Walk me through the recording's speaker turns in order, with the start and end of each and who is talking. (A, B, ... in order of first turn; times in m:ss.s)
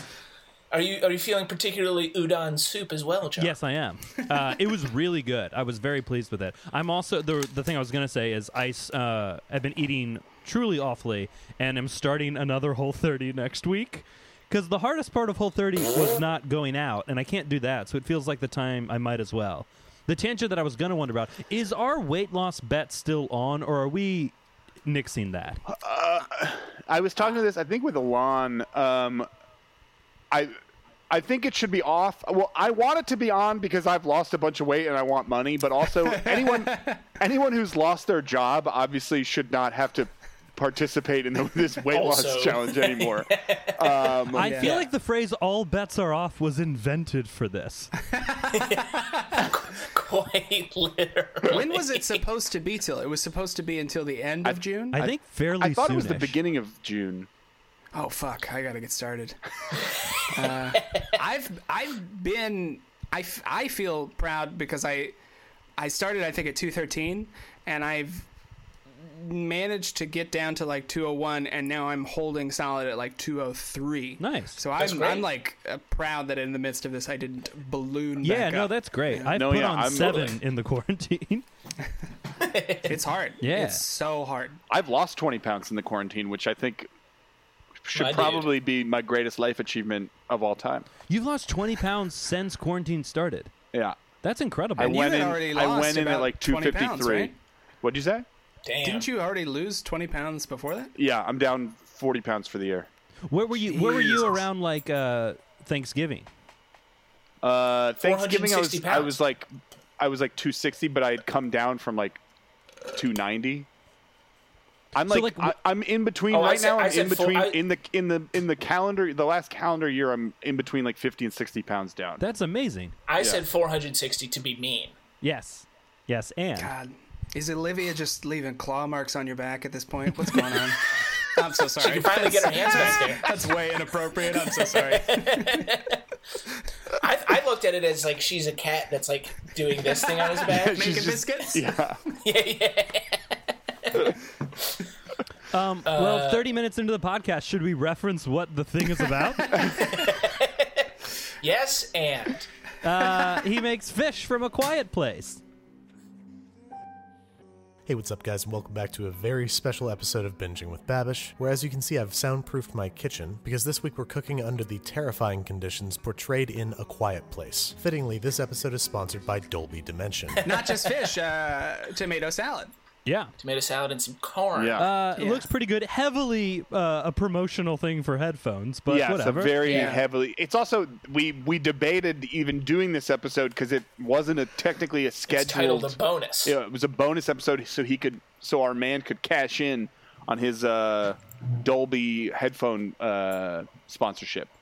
0:00.7-0:03.6 A
0:03.4-0:24.3 B
0:24.8-0:25.6 B
0:25.7-0:29.3 C
0:31.1-0:44.8 C
0:36.0-0:37.0 D
0:41.9-0:44.2 A
0:44.3-0:47.9 B
0:44.4-0:44.9 D
0:48.1-0:49.1 D
0:48.5-0:52.2 A
0:51.4-0:55.1 D
0:54.4-0:57.3 C
0:54.9-0:56.4 B
0:57.9-1:05.2 D
1:05.8-1:08.3 D
1:09.0-1:19.4 D
1:14.2-1:14.6 B
1:14.8-1:15.3 A
1:18.2-1:21.4 B
1:19.3-1:20.4 C
1:22.4-1:23.0 A
1:22.8-1:24.6 D
1:23.4-1:23.8 B
1:24.7-1:26.9 C
1:27.8-1:30.9 C
1:28.0-1:28.5 A
1:31.1-1:33.5 B
1:33.7-1:34.0 C
1:34.2-1:35.0 B
1:34.8-1:37.3 C
1:34.8-1:37.3 D
1:37.8-1:38.2 C
1:38.6-1:39.1 A
1:38.8-1:40.9 D
1:41.0-1:42.9 C
1:43.3-1:46.3 B
1:43.6-1:44.4 D
1:47.4-1:49.5 C
1:48.0-1:49.2 A
1:50.0-1:52.2 C
1:52.9-1:53.7 C
1:54.9-2:02.2 C
1:55.1-1:55.6 B
1:56.3-1:57.6 A
2:02.2-2:03.0 B
2:03.1-2:05.0 A
2:03.2-2:03.4 C
2:05.2-2:06.7 B
2:06.6-2:15.8 D
2:11.8-2:13.6 A
2:14.2-2:16.0 A
2:16.9-2:21.6 A
2:20.2-2:21.6 D
2:20.5-2:22.0 C
2:22.1-2:24.8 A
2:25.5-2:29.6 B
2:25.9-2:26.5 A
2:29.5-2:29.8 C
2:29.8-2:30.9 A
2:31.4-2:32.5 A
2:32.8-2:35.4 B
2:37.9-2:50.6 E
2:50.4-2:52.7 D
2:50.5-2:51.0 A
2:53.0-2:53.3 B
2:53.4-2:54.9 A
2:54.5-2:54.9 C
2:54.8-2:59.7 B
2:55.2-2:55.5 D
2:58.9-3:14.5 C
2:59.6-3:00.0 A
2:59.6-3:00.0 D
3:05.3-3:06.6 A